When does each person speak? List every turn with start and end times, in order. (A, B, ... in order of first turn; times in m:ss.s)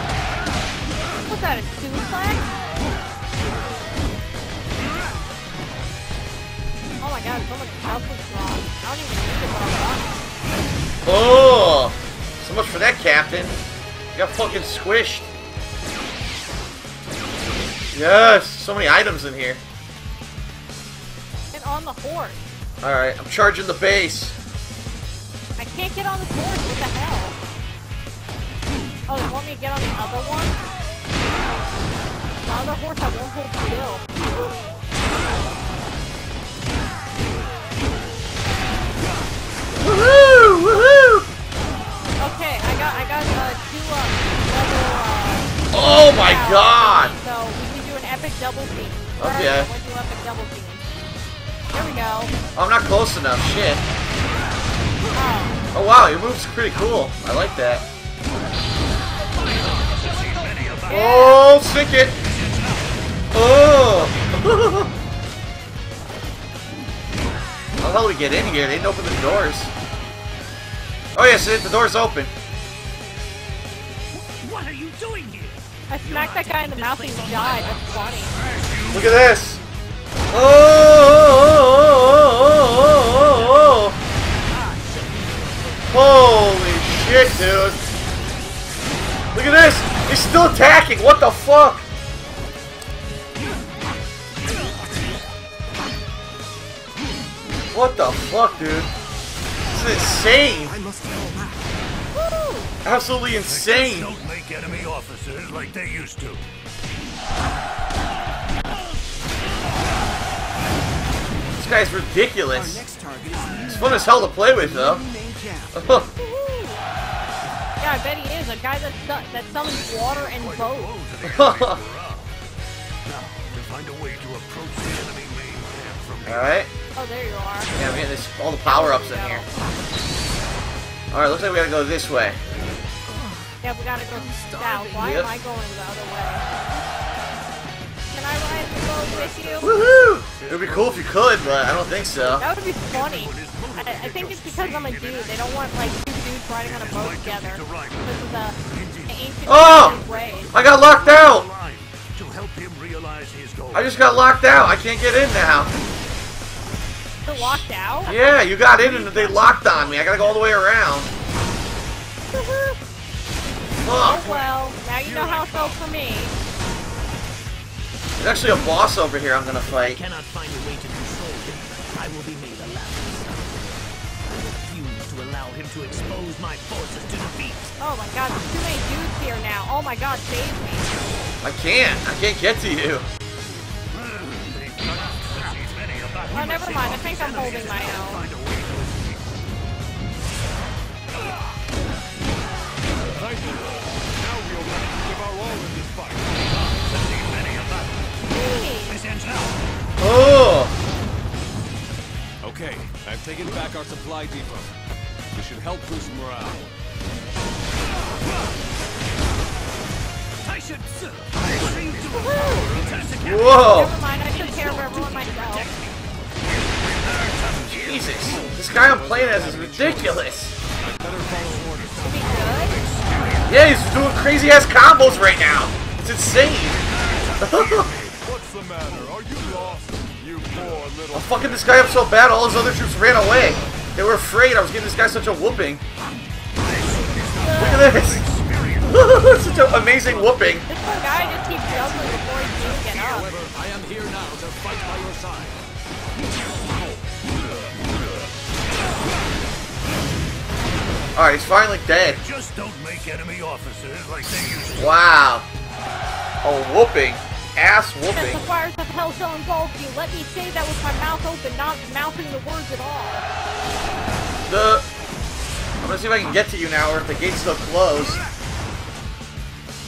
0:01.3-0:02.5 A
0:07.0-0:10.1 A
0:11.0-0:13.5 B
0:14.1-0:15.3 B
0:17.9-0:19.6 B
0:21.5-0:22.4 A
0:22.8-0:24.4 B
0:25.6-0:27.4 A
0:29.1-0:30.6 A
0:32.4-0:34.0 A
0:39.8-0:41.2 B
0:42.2-0:50.9 A
0:45.7-0:47.1 B
0:49.2-0:49.7 B
0:51.7-0:52.3 A
0:52.6-0:53.8 B
0:55.1-0:55.6 A
0:55.7-0:57.8 B
0:59.6-1:00.9 C
1:00.9-1:01.5 A
1:00.9-1:02.2 B
1:03.3-1:04.9 B
1:07.8-1:09.7 B
1:11.1-1:12.3 B
1:14.1-1:19.0 C
1:15.9-1:18.4 A
1:18.9-1:19.6 B
1:20.3-1:24.0 B
1:24.5-1:25.8 C
1:25.9-1:27.8 B
1:29.3-1:31.8 B
1:37.7-1:38.9 B
1:39.7-1:40.7 B
1:40.6-1:41.7 D
1:42.1-1:42.7 A
1:42.8-1:44.1 B
1:43.4-1:46.5 C
1:51.6-1:52.8 B
1:52.5-1:54.0 D
1:53.6-1:55.0 B
1:54.6-1:55.9 D
1:55.7-1:56.1 B
1:56.2-1:56.8 A
1:57.8-2:00.9 A
2:00.0-2:02.3 C
2:01.2-2:01.8 B
2:03.0-2:06.5 C
2:06.2-2:06.7 B
2:06.9-2:07.8 A
2:07.7-2:09.4 B
2:08.6-2:09.5 A
2:11.1-2:12.4 B
2:13.1-2:13.4 C
2:13.6-2:16.4 A
2:14.1-2:15.1 C
2:15.0-2:15.3 B
2:18.1-2:19.8 A
2:18.7-2:22.2 C
2:19.6-2:22.4 B
2:22.4-2:28.6 A
2:22.9-2:25.4 C
2:26.6-2:28.1 C
2:28.6-2:33.9 C
2:29.1-2:30.5 A
2:29.5-2:30.0 B
2:30.5-2:31.4 B
2:33.7-2:35.7 B
2:37.2-2:38.2 A
2:37.3-2:41.1 B
2:38.7-2:40.5 C
2:42.3-2:42.8 A
2:43.8-2:44.3 B
2:44.0-2:46.3 A
2:44.2-2:45.8 C
2:48.2-2:50.0 B
2:49.8-2:53.6 C
2:54.3-2:57.7 C
2:57.8-3:00.9 A
3:01.4-3:03.0 B
3:03.9-3:09.2 C
3:06.3-3:08.3 A
3:14.3-3:15.9 E
3:15.9-3:17.9 C
3:18.3-3:19.0 A
3:18.9-3:19.5 C
3:20.0-3:20.7 B
3:22.5-3:23.5 C
3:22.9-3:24.6 E
3:25.3-3:26.6 E
3:26.3-3:26.6 C
3:30.4-3:36.0 C
3:32.1-3:32.7 A
3:33.2-3:33.9 B
3:33.5-3:35.7 A
3:37.0-3:38.6 C
3:37.7-3:40.6 B
3:39.0-3:39.9 E
3:41.0-3:43.5 C
3:41.0-3:42.2 E
3:42.0-3:42.8 A
3:43.4-3:46.8 B
3:47.1-3:48.3 C
3:47.4-3:47.9 B
3:48.3-3:51.3 E
3:49.5-3:50.0 C
3:50.6-3:51.0 C
3:51.1-3:55.8 B
3:57.0-3:59.0 C
3:57.4-3:57.9 A
3:57.5-3:58.3 B
3:58.8-4:00.6 B
3:59.9-4:03.7 C
4:00.7-4:03.4 A
4:03.4-4:04.1 E
4:04.2-4:05.5 C
4:11.1-4:12.2 B
4:12.2-4:14.9 C
4:14.8-4:15.4 B
4:16.4-4:18.4 B
4:18.1-4:23.2 A
4:24.5-4:24.8 B
4:25.8-4:28.2 B